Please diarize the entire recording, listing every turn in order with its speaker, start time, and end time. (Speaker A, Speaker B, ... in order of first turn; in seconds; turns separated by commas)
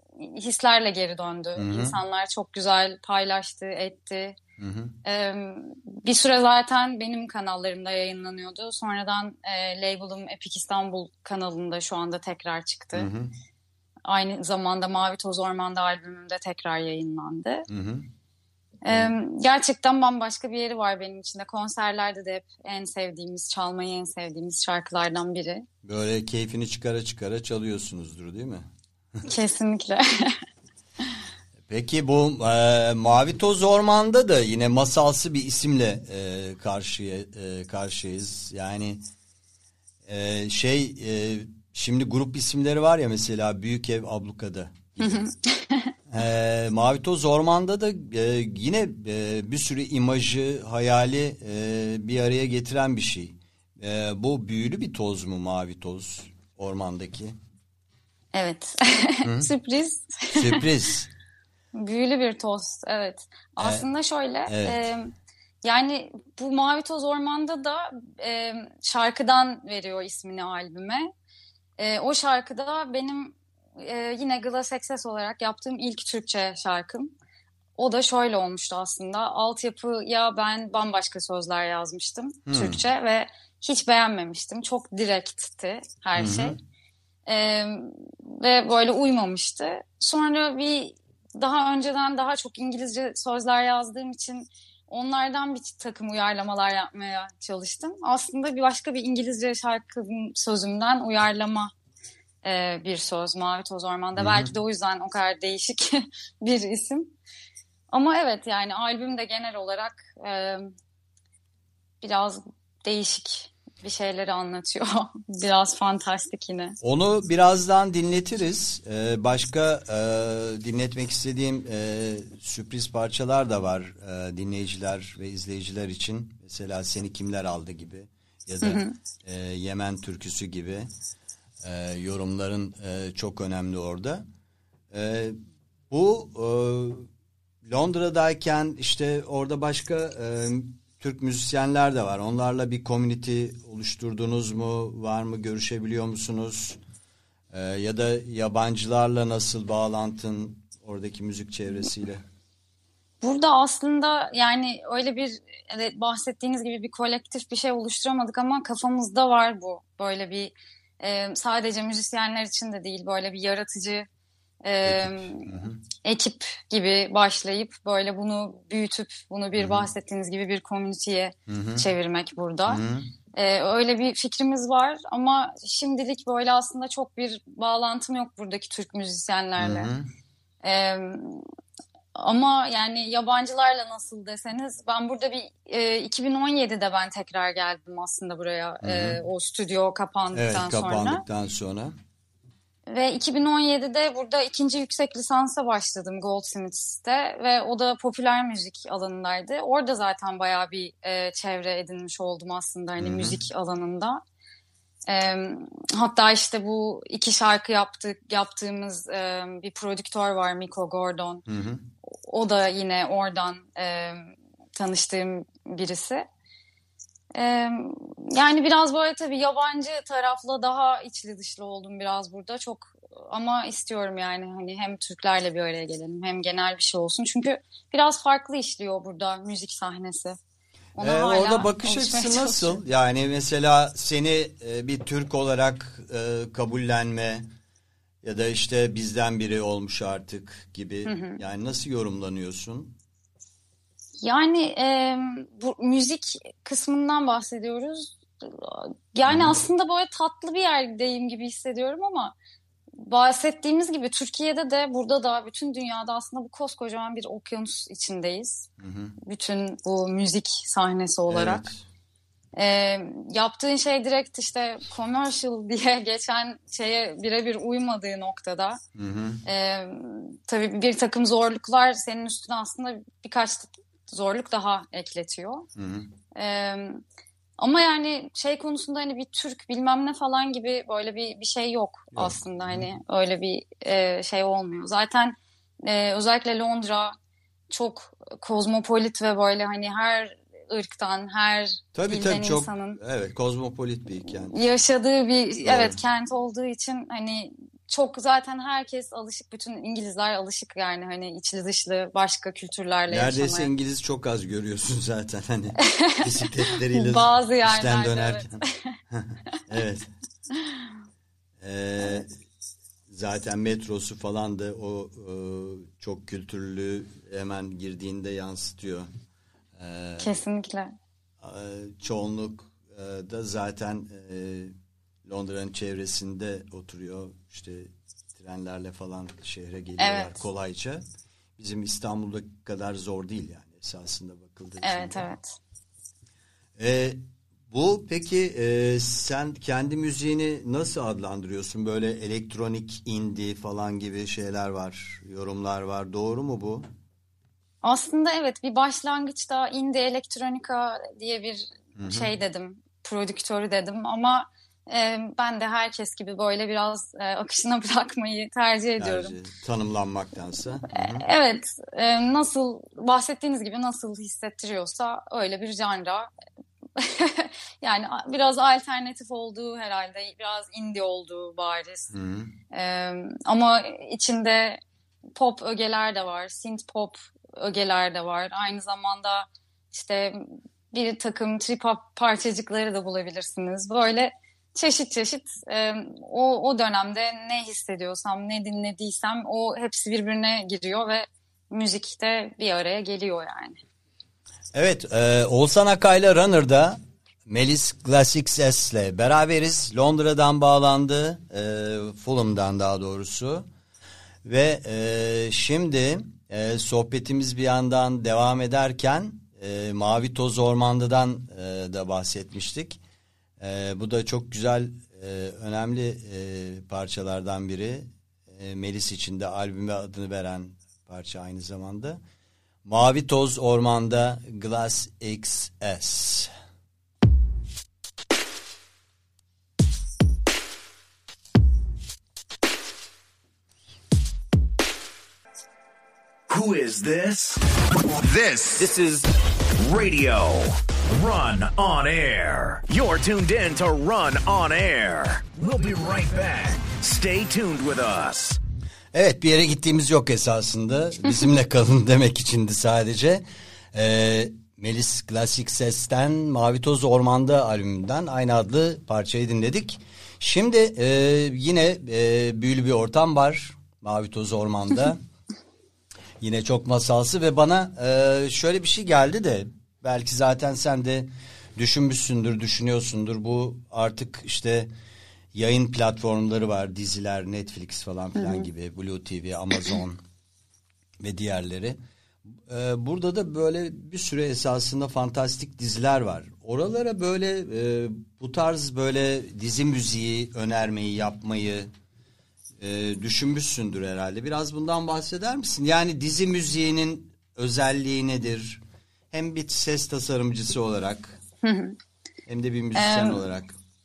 Speaker A: 0.1-4.4, Speaker B: 1.6-2.0, Speaker B: 4.6-4.9, Speaker A: 5.0-13.1, Speaker B: 12.9-13.3, Speaker A: 14.1-17.7, Speaker B: 17.7-18.1, Speaker A: 18.8-25.6, Speaker B: 25.8-28.7, Speaker A: 29.2-30.4, Speaker B: 31.7-39.0, Speaker B: 40.0-45.3, Speaker A: 45.0-45.9, Speaker B: 46.1-57.3, Speaker A: 58.3-60.6, Speaker B: 59.2-59.5, Speaker B: 60.3-61.1, Speaker A: 61.7-65.1, Speaker B: 63.6-63.9, Speaker B: 64.5-64.8, Speaker A: 65.6-71.1, Speaker A: 71.8-77.1, Speaker A: 77.8-86.6, Speaker B: 82.5-82.8, Speaker B: 86.2-86.6, Speaker A: 87.3-101.7, Speaker A: 102.4-107.1, Speaker B: 104.2-104.5, Speaker A: 107.9-110.7, Speaker A: 112.0-116.8, Speaker B: 116.8-130.9, Speaker A: 128.6-128.9, Speaker B: 131.6-134.2, Speaker B: 134.9-135.4, Speaker B: 135.9-137.1, Speaker B: 137.6-146.8, Speaker B: 147.5-152.2, Speaker A: 153.2-164.1, Speaker A: 164.6-172.8, Speaker B: 164.8-165.8, Speaker B: 169.6-169.9, Speaker B: 171.5-171.8, Speaker B: 172.7-173.1, Speaker A: 173.3-179.9, Speaker B: 179.6-180.1, Speaker A: 180.6-181.5, Speaker A: 182.2-191.2, Speaker B: 188.8-189.2, Speaker B: 190.3-191.9, Speaker A: 192.9-204.2, Speaker B: 203.0-203.4, Speaker A: 205.1-211.4, Speaker B: 211.5-211.8, Speaker A: 212.0-216.3, Speaker A: 217.3-230.4, Speaker A: 231.0-232.8, Speaker B: 231.0-237.5, Speaker B: 238.2-242.9, Speaker A: 241.1-241.4, Speaker A: 244.2-252.3, Speaker B: 249.3-249.6, Speaker A: 253.0-258.7, Speaker B: 258.8-259.1, Speaker A: 259.2-261.6, Speaker B: 261.3-261.8, Speaker A: 262.6-268.8, Speaker B: 268.9-269.4, Speaker A: 269.4-275.7, Speaker B: 275.8-276.1, Speaker A: 276.3-277.0, Speaker A: 277.6-287.1, Speaker B: 282.1-282.9, Speaker A: 287.7-293.0, Speaker B: 291.9-294.6, Speaker A: 294.4-303.7, Speaker B: 295.6-296.0, Speaker B: 303.1-310.1, Speaker A: 305.8-309.0, Speaker B: 311.6-312.3, Speaker B: 313.1-319.1, Speaker B: 319.8-320.3, Speaker A: 320.2-320.9, Speaker B: 321.4-324.7, Speaker B: 325.2-331.0, Speaker A: 330.0-330.3, Speaker B: 331.6-335.2, Speaker A: 334.8-335.6, Speaker B: 336.8-346.9, Speaker A: 347.8-359.3, Speaker B: 351.9-352.3, Speaker B: 359.0-361.2, Speaker A: 360.9-366.3, Speaker A: 367.0-372.1, Speaker B: 372.1-372.5, Speaker A: 372.7-374.8, Speaker A: 375.4-393.8, Speaker B: 394.7-403.6, Speaker B: 404.4-413.0, Speaker B: 413.6-422.2, Speaker B: 422.8-426.5, Speaker C: 436.5-448.6, Speaker B: 449.1-465.2, Speaker B: 466.4-474.9, Speaker B: 475.5-480.2, Speaker A: 478.4-478.7, Speaker B: 481.2-482.0, Speaker B: 482.6-491.9, Speaker B: 492.8-498.8, Speaker B: 499.3-501.4, Speaker A: 501.6-502.0, Speaker B: 502.5-503.7, Speaker A: 502.9-503.4